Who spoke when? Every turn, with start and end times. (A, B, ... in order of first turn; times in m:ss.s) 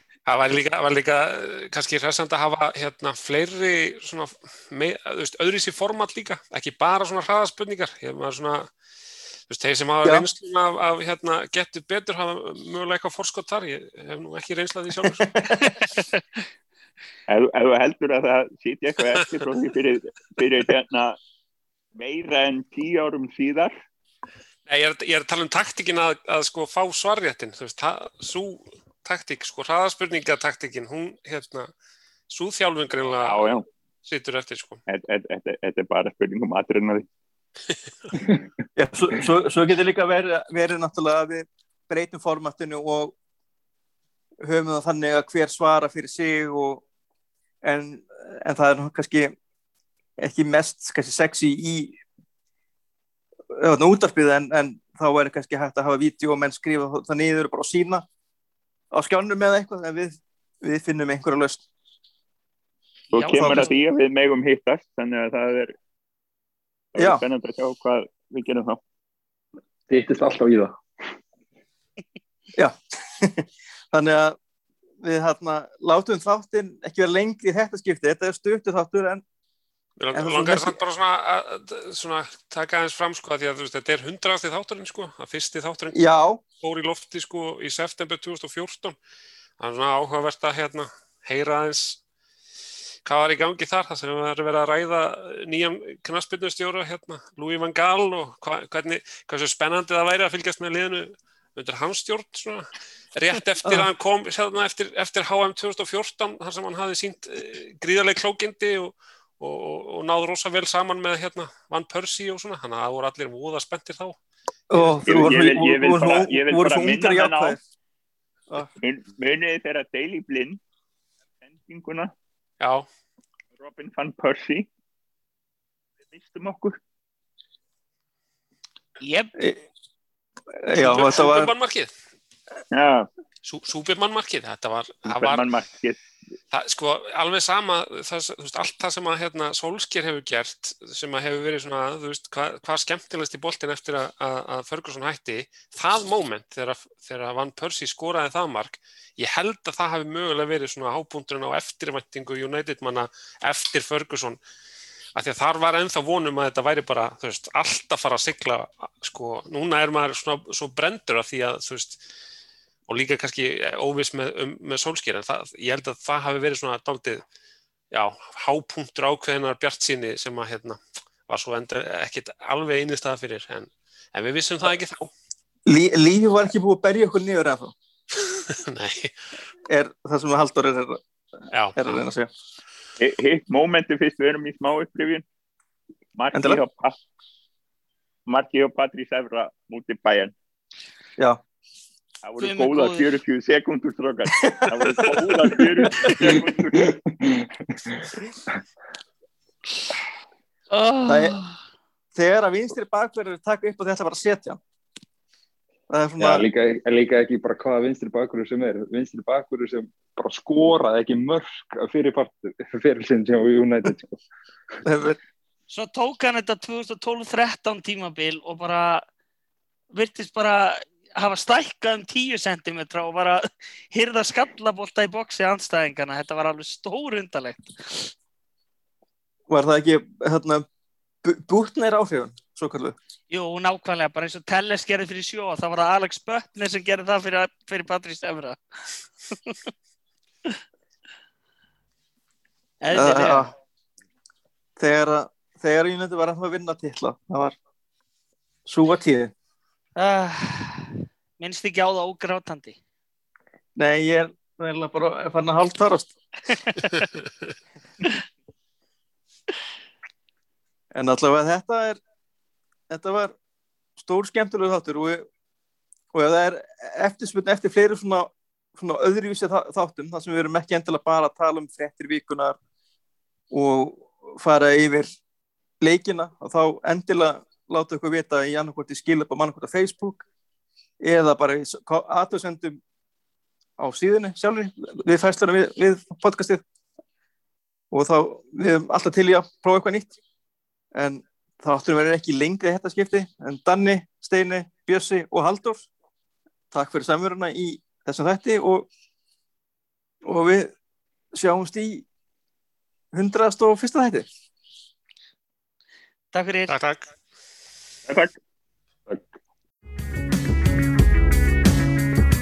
0:00.3-0:08.7 A
0:09.5-0:15.7 A
0:17.3-0:21.2 B
0:22.0-0:23.7 B
0:24.7-0:31.7 A
0:32.3-0:33.5 A
0:33.2-0:33.7 B
0:34.0-0:34.8 A
0:34.9-0:37.1 B
0:38.8-0:43.1 C
0:44.4-0:46.8 C
0:47.6-0:49.3 C
0:50.2-0:52.0 C
0:53.5-0:58.0 C
0:58.9-1:01.6 C
1:03.1-1:05.7 B
1:03.1-1:03.7 D
1:06.9-1:08.8 B
1:07.0-1:07.2 C
1:09.9-1:10.8 E
1:12.6-1:14.4 C
1:15.0-1:19.2 C
1:20.0-1:26.0 A
1:20.1-1:20.8 C
1:25.9-1:26.4 C
1:26.6-1:29.0 A
1:29.6-1:32.0 A
1:33.0-1:54.2 A
1:54.7-1:57.6 C
1:54.8-1:55.0 A
1:55.1-1:57.6 B
1:58.8-2:00.6 B
2:01.5-2:02.1 B
2:02.6-2:02.9 A
2:03.6-2:04.7 B
2:06.1-2:06.8 B
2:09.0-2:09.3 D
2:10.6-2:11.5 C
2:10.7-2:11.9 A
2:12.7-2:13.1 B
2:13.4-2:15.5 A
2:15.1-2:16.0 B
2:16.5-2:34.4 A
2:35.2-2:42.0 A
2:42.9-2:47.2 A
2:47.9-2:55.1 A
2:55.7-2:57.7 C
2:58.3-2:59.2 A
2:59.7-3:01.0 C
3:01.5-3:01.9 A
3:01.8-3:02.3 C
3:03.0-3:05.2 B
3:06.2-3:07.0 B
3:06.3-3:06.6 C
3:08.3-3:10.3 B
3:12.2-3:17.0 B
3:12.4-3:13.1 D
3:14.4-3:15.3 C
3:16.2-3:18.5 E
3:20.7-3:21.6 D
3:21.1-3:21.4 C
3:22.2-3:24.6 C
3:25.9-3:26.4 C
3:26.2-3:34.2 E
3:34.8-3:35.2 C
3:35.7-3:39.0 D
3:39.9-3:48.1 D
3:49.5-3:50.6 C
3:51.2-3:53.0 C
3:53.3-3:58.6 D
4:02.8-4:03.5 D
4:02.9-4:03.5 C
4:04.8-4:07.6 C
4:08.7-4:09.3 C
4:10.0-4:12.8 D
4:13.8-4:16.1 C
4:21.0-4:22.0 C
4:22.9-4:23.3 C
4:24.0-4:25.3 C
4:26.1-4:32.6 C
4:33.5-4:35.1 C
4:35.8-4:40.2 C
4:41.0-4:42.8 C
4:43.8-4:46.6 C
4:47.9-4:50.2 C
4:51.0-4:55.9 C
4:56.7-4:58.9 C
5:00.2-5:00.7 C
5:01.3-5:02.0 C
5:03.1-5:04.3 C
5:06.3-5:06.7 D
5:06.7-5:07.1 A
5:08.1-5:08.4 B